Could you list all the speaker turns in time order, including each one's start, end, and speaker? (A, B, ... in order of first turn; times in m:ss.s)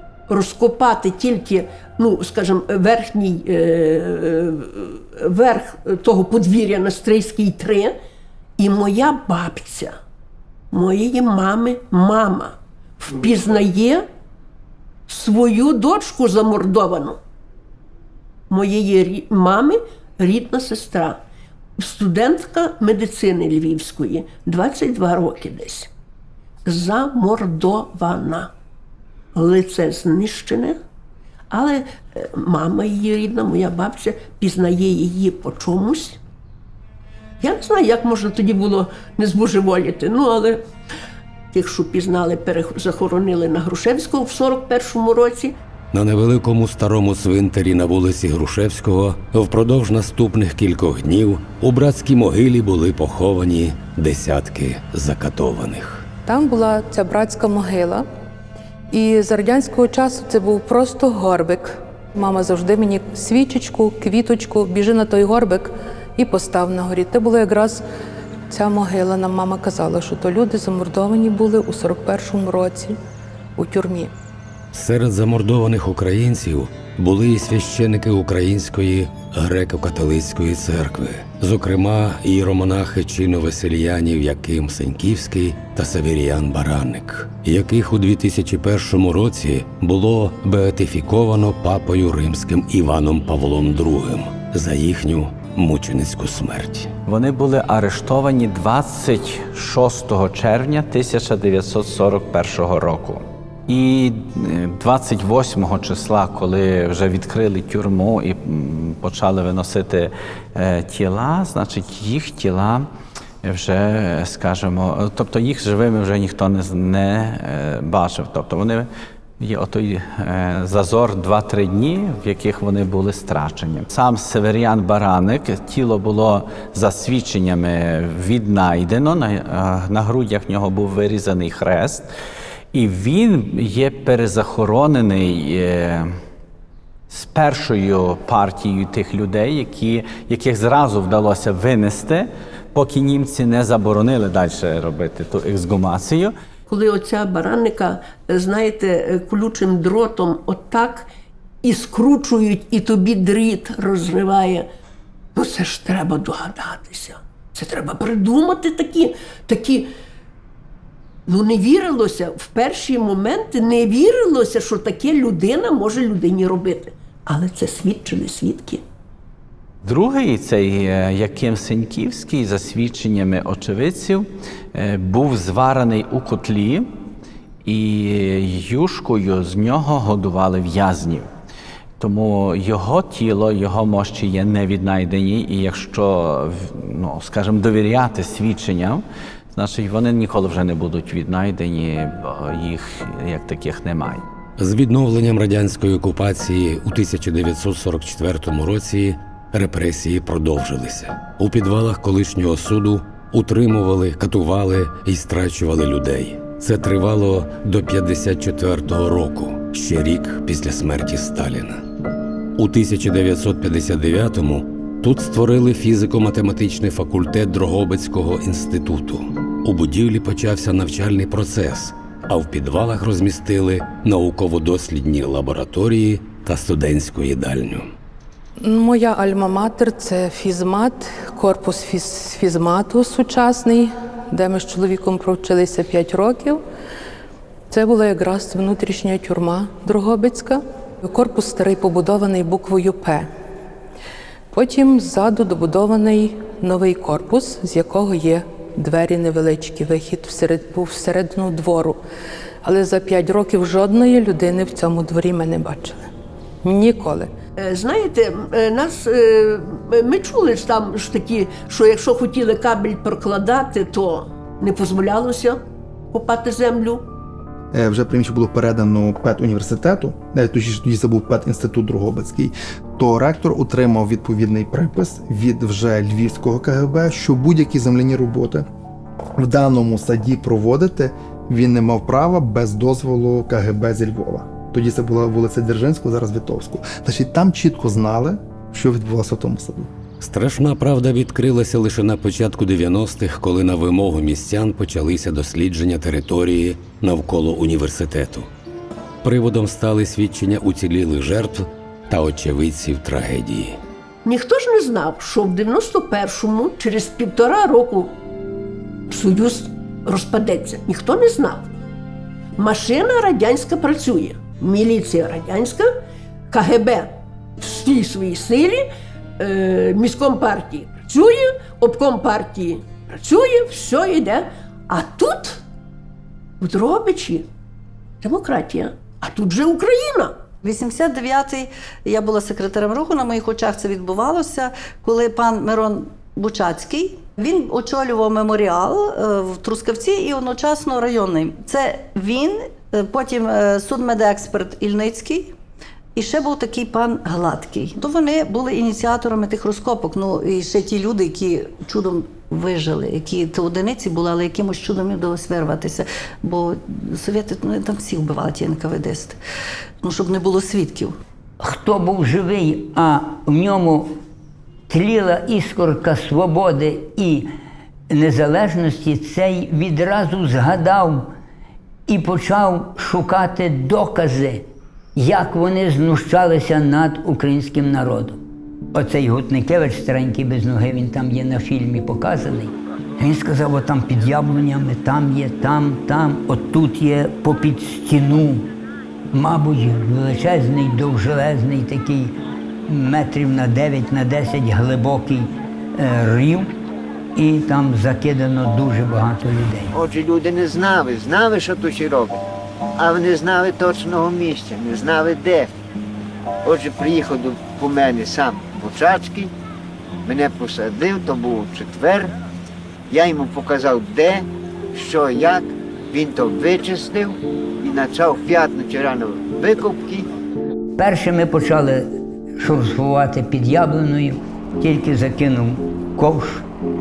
0:00.3-0:08.0 A
0:08.6-0:10.0 A
0:10.7-0:14.0 A
0:15.1-0:17.2 A
0:18.5-0:21.2 A
0:21.8-0:25.9 A
0:26.6-0:28.5 A
0:29.3-0:30.8 A
0:31.5-0:36.2 A
0:37.4-0:40.7 A
0:41.5-0:45.6 A
0:45.9-0:56.1 B
0:56.2-0:58.0 C
0:58.9-1:07.8 C
1:08.5-1:13.0 C
1:13.6-1:14.1 C
1:14.7-1:36.9 B
1:37.0-1:52.9 D
1:53.4-1:58.9 D
1:59.4-2:12.1 D
2:12.7-2:16.1 D
2:17.1-2:26.3 D
2:26.7-2:31.1 A
2:31.6-2:34.7 A
2:35.3-2:39.9 A
2:41.2-2:48.8 A
2:49.8-2:56.9 D
2:57.6-3:01.3 D
3:02.0-3:14.2 D
3:14.6-3:31.8 B
3:32.6-3:47.9 B
3:48.6-3:56.6 C
3:57.7-4:03.3 C
4:04.5-4:12.0 C
4:12.6-4:16.1 C
4:16.6-4:17.3 C
4:17.6-4:25.6 A
4:26.1-4:27.1 A
4:27.7-4:38.6 E
4:39.4-4:49.9 E
4:50.2-4:58.5 B
4:59.2-5:03.8 B
5:04.2-5:08.1 A
5:09.1-5:11.7 A
5:12.6-5:15.9 A
5:16.5-5:18.8 A
5:19.4-5:25.6 A
5:26.6-5:27.5 A
5:28.2-5:30.4 A
5:30.6-5:45.5 F
5:46.1-5:59.4 F
6:00.0-6:01.2 F
6:01.6-6:04.2 G
6:04.9-6:07.5 G
6:08.1-6:11.3 G
6:12.1-6:18.4 G
6:18.9-6:28.7 G
6:29.3-6:32.4 G
6:32.9-6:36.8 G
6:37.4-6:39.9 G
6:39.9-6:42.4 H
6:43.0-6:45.7 H
6:46.6-6:49.5 H
6:50.2-6:52.3 H
6:53.1-7:00.2 H
7:01.0-7:06.7 G